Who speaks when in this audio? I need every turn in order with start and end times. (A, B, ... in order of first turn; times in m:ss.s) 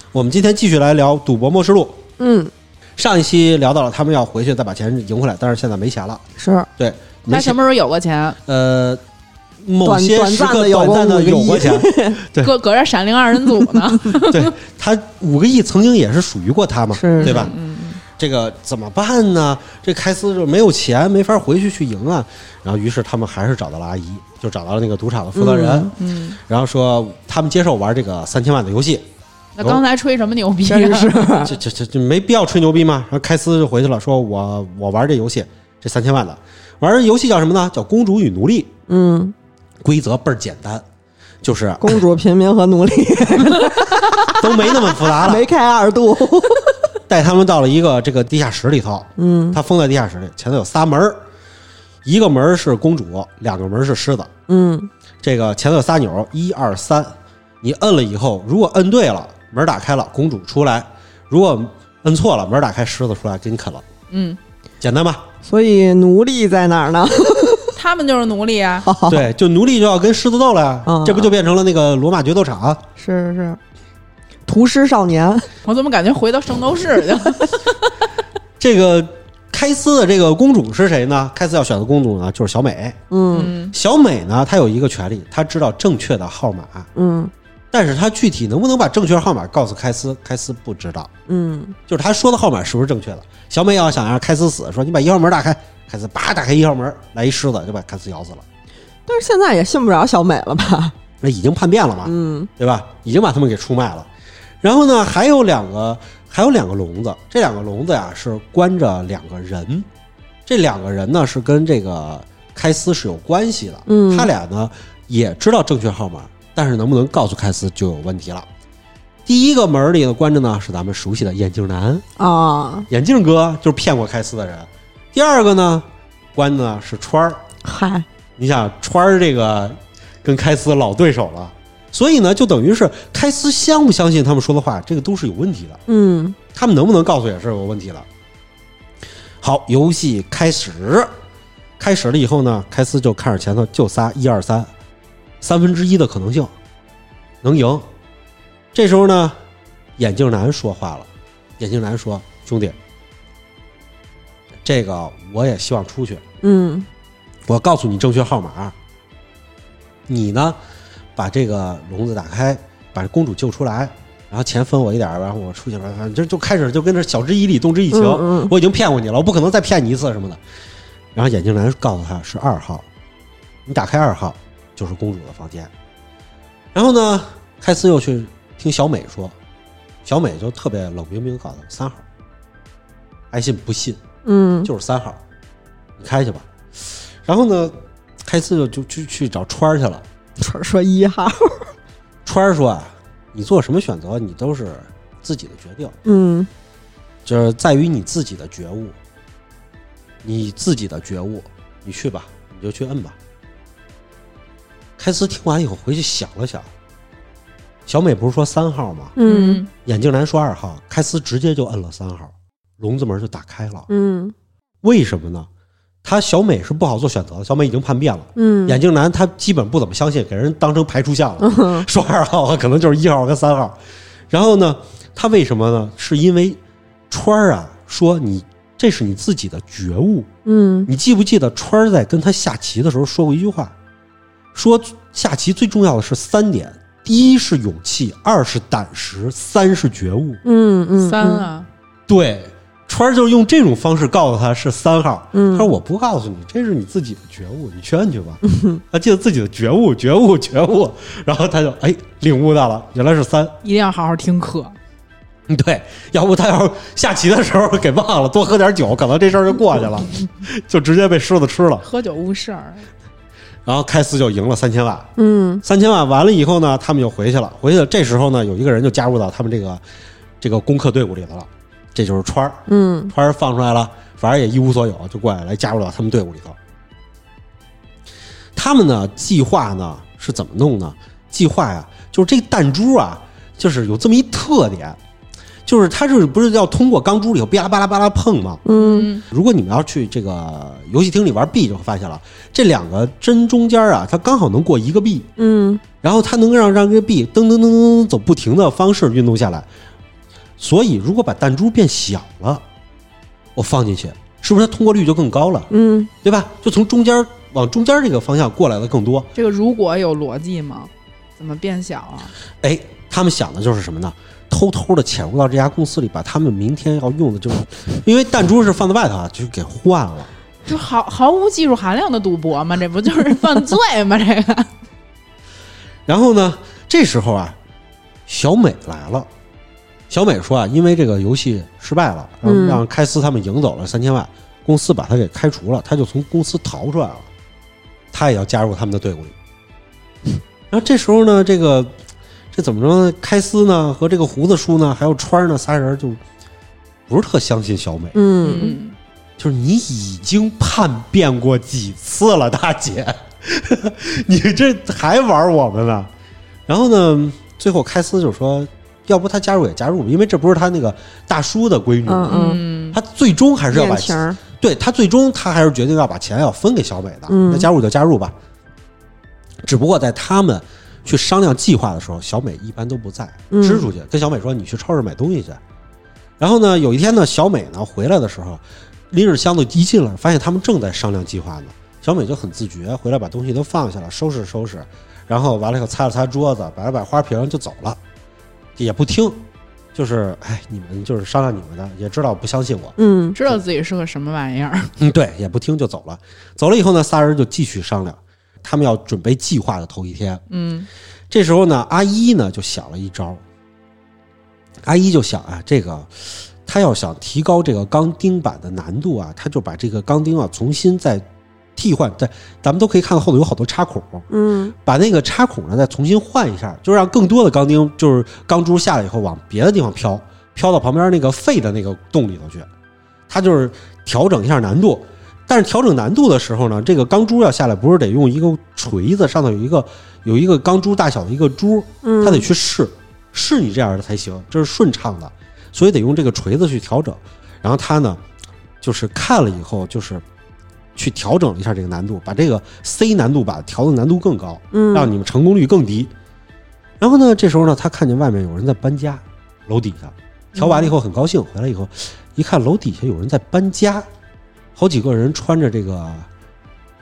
0:00.1-0:02.0 A
0:02.2-0:02.5 B
0:03.0-0:06.2 A
0:06.4-0:06.7 B
0:06.8-0:07.6 A
0:07.3-0:08.4 C
0:08.5-0:09.0 A
0:09.6-0:12.5 A
0:09.8-0:12.2 B
0:12.4-0:14.5 C
0:13.6-0:13.9 B
0:14.2-0:17.6 A
0:16.9-0:17.5 B
0:17.2-0:18.0 C
0:18.2-0:29.0 A
0:25.4-0:25.9 B
0:26.0-0:26.4 C
0:29.6-0:31.5 C
0:30.7-0:31.5 B
0:31.4-0:38.7 A
0:38.9-0:39.4 B
0:39.8-0:40.8 A
0:41.4-0:42.0 A
0:41.8-0:46.9 B
0:44.1-0:45.5 A
0:47.1-0:51.2 A
0:49.2-0:49.6 B
0:52.0-0:54.3 A
0:54.5-0:54.9 B
0:55.2-1:03.8 A
1:04.1-1:04.4 C
1:04.8-1:05.2 A
1:05.4-1:07.8 B
1:07.8-1:08.9 C
1:08.8-1:09.3 B
1:09.1-1:12.8 A
1:10.8-1:11.3 B
1:13.0-1:13.6 B
1:14.5-1:15.5 B
1:15.6-1:18.0 C
1:18.6-1:26.9 A
1:23.1-1:23.5 B
1:23.3-1:23.7 C
1:27.0-1:27.3 B
1:27.7-1:31.1 A
1:31.3-1:31.8 B
1:31.9-1:38.4 A
1:39.1-1:41.0 B
1:41.2-1:44.1 A
1:42.0-1:42.5 B
1:44.6-1:49.9 A
1:50.5-1:58.5 A
1:53.9-1:54.3 B
1:59.3-2:02.0 A
2:02.2-2:02.9 B
2:02.9-2:07.4 A
2:07.6-2:08.1 B
2:08.4-2:15.8 A
2:15.9-2:16.4 B
2:16.5-2:18.1 A
2:19.4-2:21.1 A
2:21.8-2:24.7 A
2:25.4-2:26.5 A
2:27.4-2:27.9 A
2:28.7-2:29.4 A
2:30.0-2:31.1 A
2:31.6-2:32.8 A
2:34.6-2:36.2 A
2:36.4-2:36.9 B
2:37.5-2:38.8 A
2:40.1-2:40.6 A
2:41.2-2:50.4 A
2:47.9-2:48.5 B
2:51.2-2:52.9 A
2:53.7-2:55.7 A
2:56.7-2:59.4 A
3:00.0-3:02.0 A
3:03.3-3:04.0 A
3:04.2-3:04.7 B
3:04.6-3:05.2 A
3:06.0-3:06.5 A
3:07.2-3:07.8 A
3:08.3-3:10.0 A
3:10.4-3:11.7 B
3:12.2-3:16.0 A
3:16.0-3:16.5 B
3:17.3-3:19.0 A
3:20.2-3:23.2 A
3:25.0-3:26.7 A
3:27.9-3:29.2 A
3:29.2-3:29.6 B
3:29.2-3:29.7 C
3:29.8-3:33.9 A
3:33.9-3:34.4 B
3:34.8-3:35.5 A
3:36.0-3:43.8 A
3:38.4-3:38.8 B
3:41.4-3:41.9 B
3:44.3-3:46.6 A
3:47.1-3:50.3 A
3:50.5-3:50.9 B
3:50.9-3:53.7 A
3:54.5-4:00.4 A
4:00.4-4:01.5 B
4:01.0-4:01.7 C
4:02.1-4:13.6 A
4:05.3-4:05.7 B
4:13.6-4:14.8 C
4:15.5-4:21.9 A
4:21.8-4:22.9 C
4:23.7-4:25.1 A
4:25.2-4:25.6 B
4:25.6-4:29.8 A
4:30.4-4:36.6 A
4:32.7-4:33.1 B
4:38.6-4:45.0 A
4:45.7-4:48.6 A
4:48.6-4:49.1 B
4:48.7-4:49.2 C
4:49.3-4:55.3 A
4:55.4-4:55.8 B
4:56.0-4:59.7 A
5:00.6-5:02.6 A
5:03.6-5:05.7 A
5:05.7-5:06.1 B
5:06.2-5:09.3 A
5:09.4-5:12.3 C
5:12.6-5:20.3 A
5:20.6-5:24.7 C
5:26.1-5:27.6 A
5:28.3-5:29.3 A
5:30.1-5:37.3 A
5:32.4-5:32.8 B
5:38.1-5:39.4 A
5:40.7-5:41.9 A
5:42.5-5:46.2 A
5:47.1-5:48.2 A
5:48.2-5:48.8 B
5:48.4-5:49.0 C
5:49.4-5:56.1 A
5:56.7-6:02.4 A
6:02.1-6:02.6 B
6:02.3-6:03.0 C
6:02.9-6:08.3 A
6:03.7-6:04.4 B
6:07.3-6:07.7 B
6:09.6-6:15.6 A
6:13.5-6:13.9 B
6:16.4-6:28.0 A
6:28.8-6:29.4 A
6:30.0-6:33.0 A
6:33.0-6:33.4 B
6:33.3-6:34.9 C
6:35.0-6:40.4 A
6:40.5-6:40.9 C
6:41.3-6:43.4 A
6:44.8-6:51.2 A
6:51.8-6:54.3 A
6:54.3-6:54.7 B
6:54.8-7:02.7 A
7:03.3-7:18.2 A
7:12.0-7:12.5 B
7:18.8-7:20.2 A
7:21.0-7:26.1 A
7:24.7-7:25.1 B
7:27.0-7:34.1 A
7:30.6-7:30.9 C
7:34.8-7:36.3 A